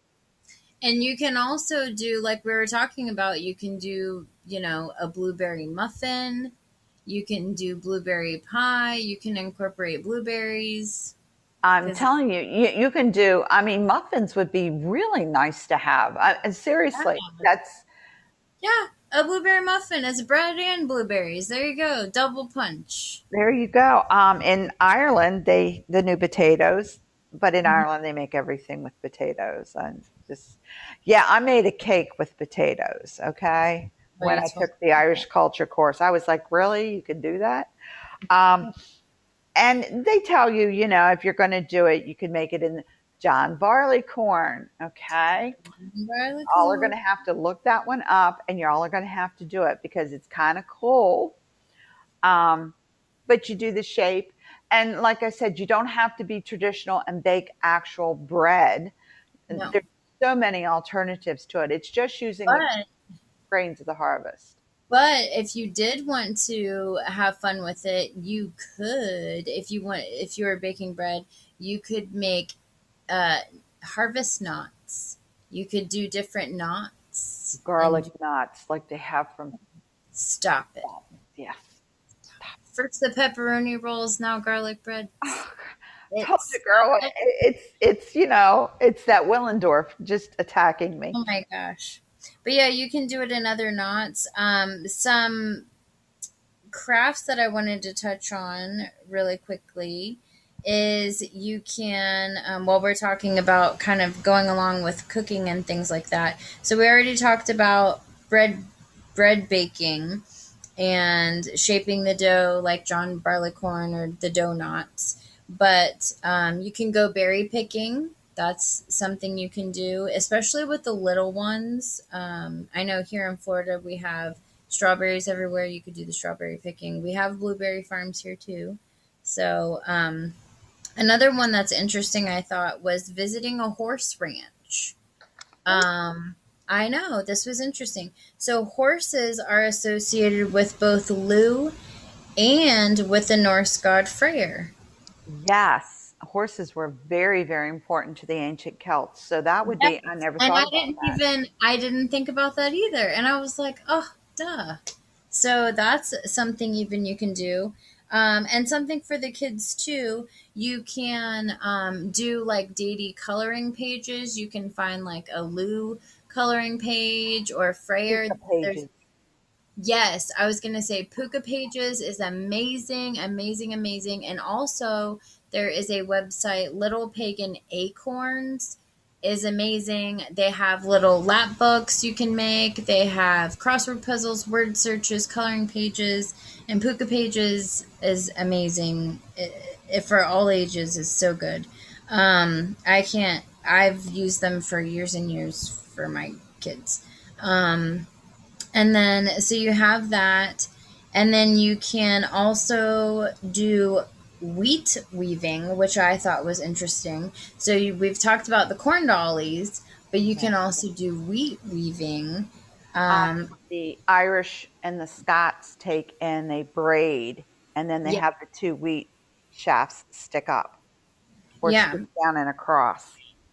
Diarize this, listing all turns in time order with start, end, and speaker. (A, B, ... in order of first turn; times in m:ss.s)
0:00.8-0:06.5 A
0:07.1-0:11.2 A
0:11.6-0:17.8 B
0:11.8-0:12.1 A
0:17.0-0:17.5 A
0:18.6-0:23.2 A
0:23.3-0:37.7 B
0:34.2-0:35.2 A
0:38.3-0:38.7 B
0:39.6-0:45.6 B
0:45.8-0:47.0 A
0:46.5-0:51.4 B
0:52.2-0:52.8 B
0:53.3-0:58.9 B
0:59.5-1:02.7 B
0:59.5-0:59.8 A
1:02.5-1:02.9 A
1:03.5-1:04.6 B
1:04.9-1:12.6 A
1:13.1-1:18.1 A
1:17.6-1:19.6 B
1:20.1-1:20.9 A
1:20.8-1:21.8 B
1:22.7-1:25.4 A
1:25.2-1:31.2 B
1:26.1-1:27.1 A
1:31.1-1:35.7 A
1:36.7-1:50.2 A
1:50.8-2:10.4 A
2:11.0-2:15.0 A
2:15.7-2:21.7 A
2:22.4-2:24.8 A
2:25.3-2:31.2 B
2:29.6-2:34.8 A
2:35.3-2:48.8 A
2:48.1-2:48.9 B
2:49.8-3:18.1 A
3:18.7-3:33.5 A
3:30.3-3:30.8 B
3:33.1-3:40.8 B
3:41.6-3:43.2 B
3:41.6-3:42.0 A